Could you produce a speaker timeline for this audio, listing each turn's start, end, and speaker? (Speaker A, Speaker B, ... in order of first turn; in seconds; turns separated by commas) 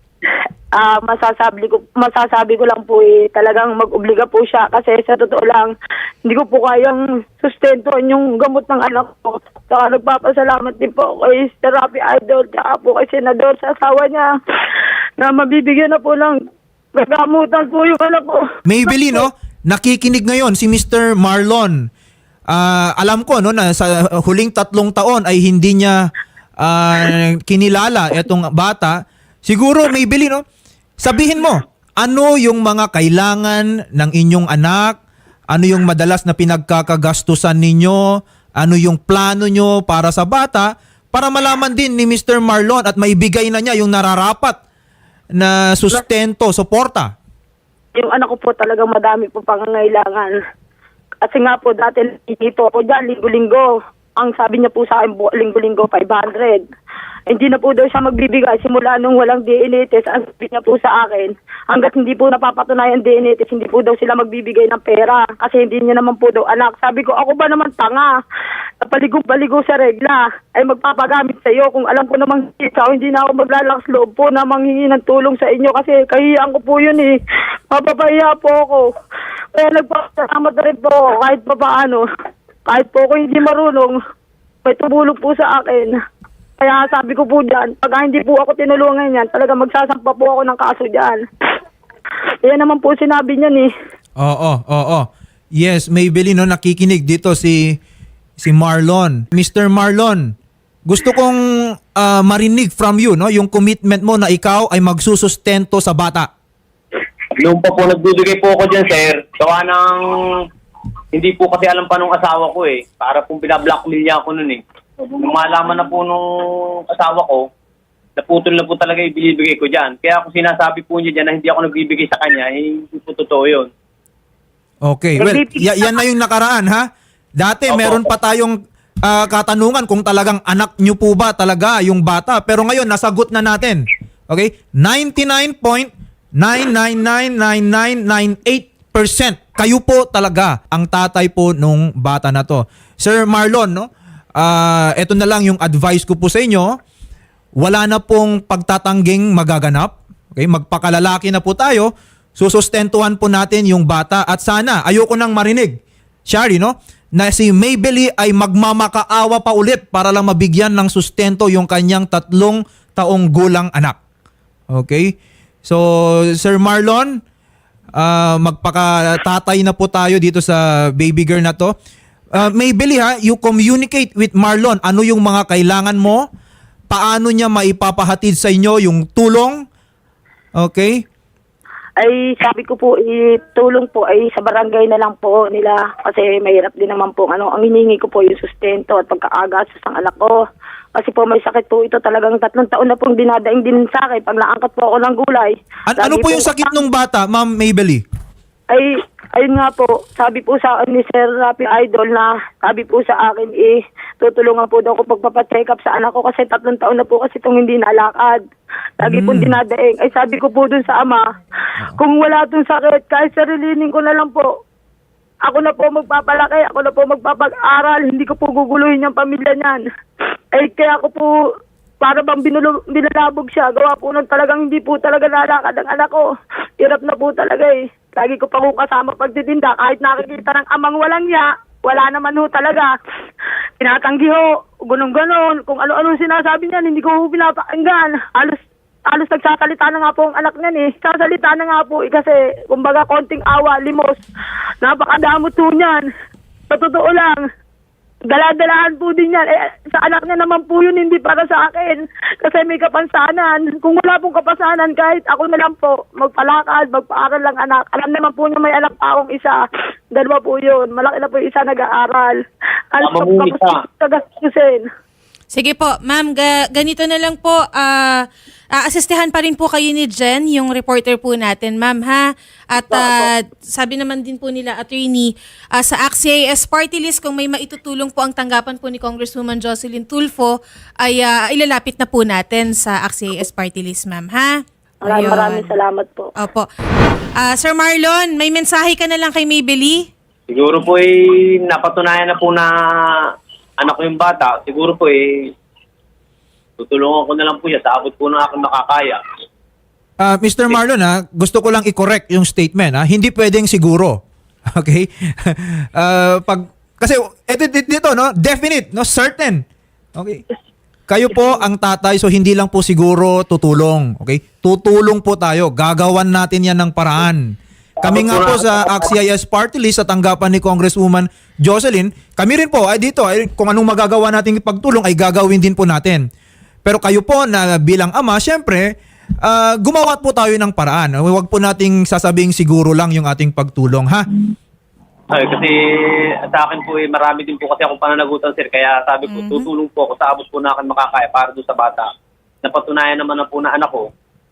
Speaker A: 0.8-5.7, Speaker A: 6.2-14.3, Speaker A: 15.2-16.4, Speaker A: 16.9-18.4, Speaker B: 18.6-21.8, Speaker B: 22.5-26.1, Speaker B: 26.6-30.4, Speaker B: 31.0-35.0, Speaker B: 35.5-38.0, Speaker B: 38.6-44.6, Speaker B: 45.4-47.1, Speaker A: 47.9-50.3, Speaker A: 51.2-56.6, Speaker A: 57.3-68.1, Speaker A: 68.8-77.1, Speaker A: 77.7-78.8, Speaker A: 79.5-82.0, Speaker A: 82.7-84.0, Speaker A: 84.6-86.0, Speaker A: 86.6-91.2, Speaker A: 92.5-93.7, Speaker B: 94.2-97.8, Speaker B: 98.4-100.3, Speaker B: 100.9-106.3, Speaker C: 107.4-110.0, Speaker C: 111.1-114.6, Speaker C: 115.2-116.2, Speaker C: 116.9-117.5, Speaker C: 118.2-123.7, Speaker B: 124.8-126.8, Speaker A: 125.2-126.0, Speaker B: 127.4-146.8, Speaker C: 127.7-128.1, Speaker B: 147.6-155.8, Speaker B: 156.3-163.9, Speaker B: 164.7-167.2, Speaker B: 167.9-171.7, Speaker B: 172.3-176.2, Speaker B: 176.9-179.6, Speaker B: 180.6-181.0, Speaker A: 182.0-190.3, Speaker A: 190.9-196.7, Speaker B: 195.9-198.0, Speaker A: 198.7-208.4, Speaker A: 209.0-211.3, Speaker B: 209.0-209.6, Speaker A: 211.9-214.5, Speaker A: 215.4-219.8, Speaker A: 220.5-221.3, Speaker A: 222.0-226.2, Speaker A: 226.8-232.9, Speaker A: 233.8-244.2, Speaker A: 244.8-246.1, Speaker A: 246.7-247.4, Speaker A: 248.3-259.6, Speaker A: 260.1-262.4, Speaker A: 262.9-264.8, Speaker C: 263.0-263.8, Speaker D: 265.5-285.7, Speaker A: 273.0-273.3, Speaker A: 285.1-286.3, Speaker D: 286.4-286.7, Speaker D: 287.4-290.1, Speaker C: 290.5-292.7, Speaker C: 293.8-295.5, Speaker C: 296.8-299.2, Speaker B: 300.2-304.2, Speaker B: 304.7-309.6, Speaker B: 310.1-310.4, Speaker B: 311.1-317.4, Speaker C: 318.0-319.1, Speaker B: 318.0-326.2, Speaker B: 326.8-328.9, Speaker B: 329.4-334.2, Speaker C: 335.3-342.1, Speaker D: 339.3-339.7, Speaker C: 342.6-344.1